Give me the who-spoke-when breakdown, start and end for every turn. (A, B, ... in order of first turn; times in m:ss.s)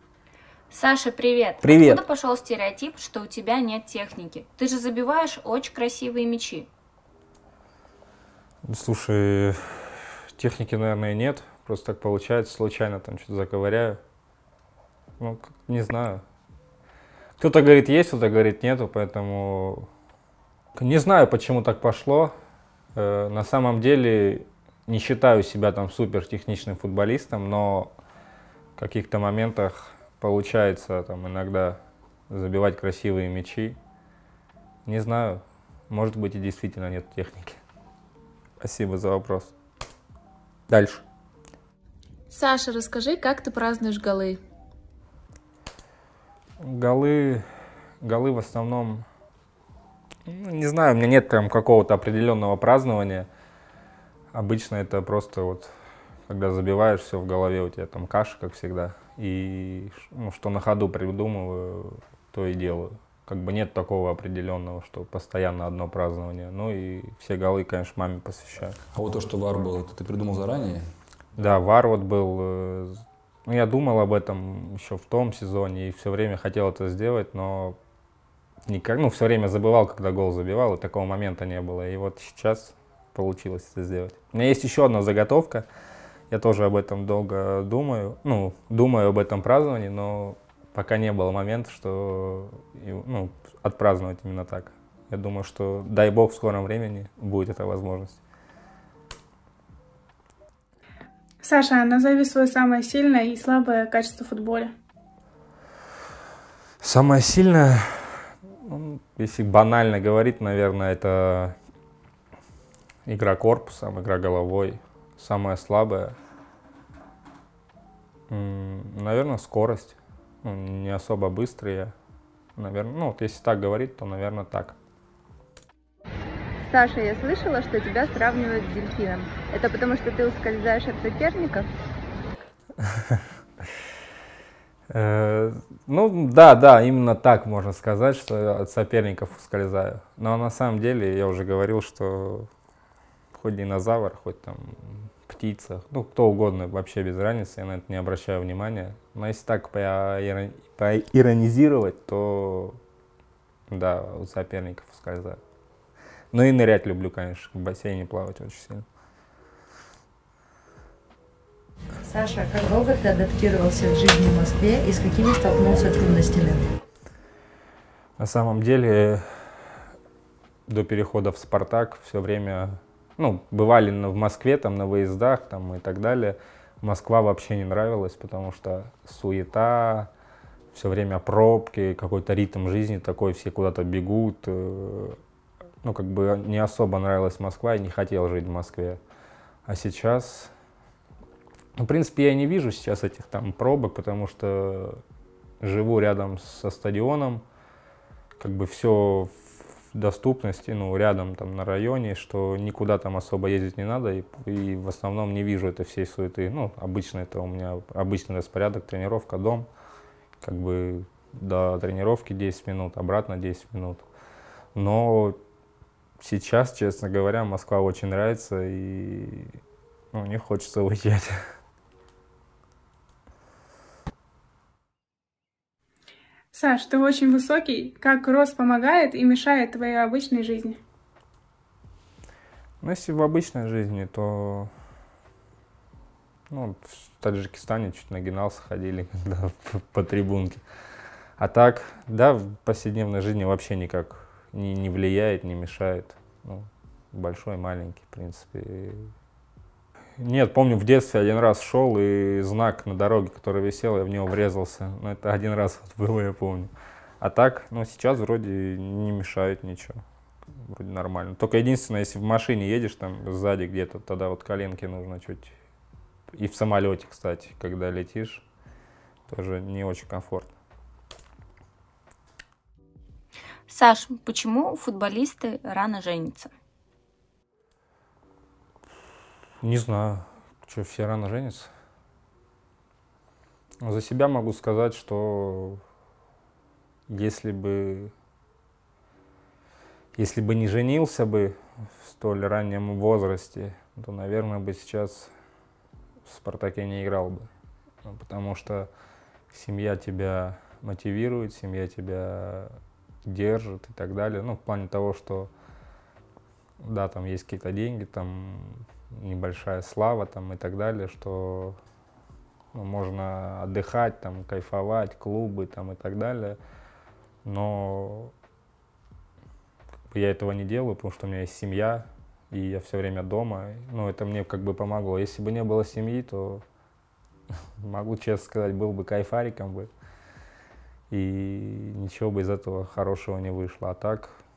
0:00.7-0:06.7 A
0:01.6-0:02.0 B
0:08.6-0:14.0 B
0:15.2-0:16.2 B
0:17.4-0:19.9 B
0:20.8-0:22.3 B
0:22.9-0:27.9 B
0:28.8-0:33.8 B
0:34.8-0:37.6 B
0:38.6-0:39.5 B
0:40.7-0:41.0 B
0:42.3-0:44.4 C
0:46.6-0:47.4 B
0:48.0-0:49.0 B
0:50.2-0:53.3 B
0:54.3-0:55.7 B
0:56.3-1:08.8 B
1:08.9-1:10.9 D
1:11.4-1:17.8 B
1:18.6-1:25.6 B
1:26.3-1:38.2 B
1:41.4-1:44.7 E
1:46.8-1:51.6 B
1:53.0-1:56.2 B
1:58.3-2:01.9 B
2:02.6-2:04.8 B
2:06.6-2:11.7 F
2:12.9-2:13.2 B
2:14.9-2:22.5 B
2:23.3-2:32.8 B
2:33.7-2:35.4 B
2:36.3-2:38.8 B
2:42.0-2:46.6 G
2:48.2-2:49.8 B
2:50.7-3:00.1 B
3:00.7-3:05.2 B
3:05.8-3:09.0 B
3:09.6-3:10.5 B
3:11.8-3:15.0 B
3:15.6-3:17.4 B
3:18.4-3:19.3 B
3:19.9-3:29.7 B
3:30.4-3:34.1 B
3:34.7-3:35.4 B
3:36.2-3:39.6 B
3:40.1-3:41.3 B
3:46.5-3:50.8 E
3:52.8-3:54.7 B
3:56.5-4:00.6 B
4:01.4-4:09.1 B
4:10.2-4:20.0 B
4:20.5-4:25.5 B
4:26.3-4:28.4 B
4:29.3-4:30.5 B
4:33.7-4:36.5 A
4:39.6-4:41.7 B
4:43.8-4:45.8 B
4:47.1-4:48.1 B
4:50.1-4:55.3 B
4:56.2-4:57.5 B
4:58.0-4:58.9 B
4:59.5-5:05.5 B
5:06.8-5:11.8 B
5:12.7-5:16.6 B
5:17.4-5:18.3 B
5:20.1-5:26.6 B
5:27.8-5:29.9 B
5:31.1-5:34.4 B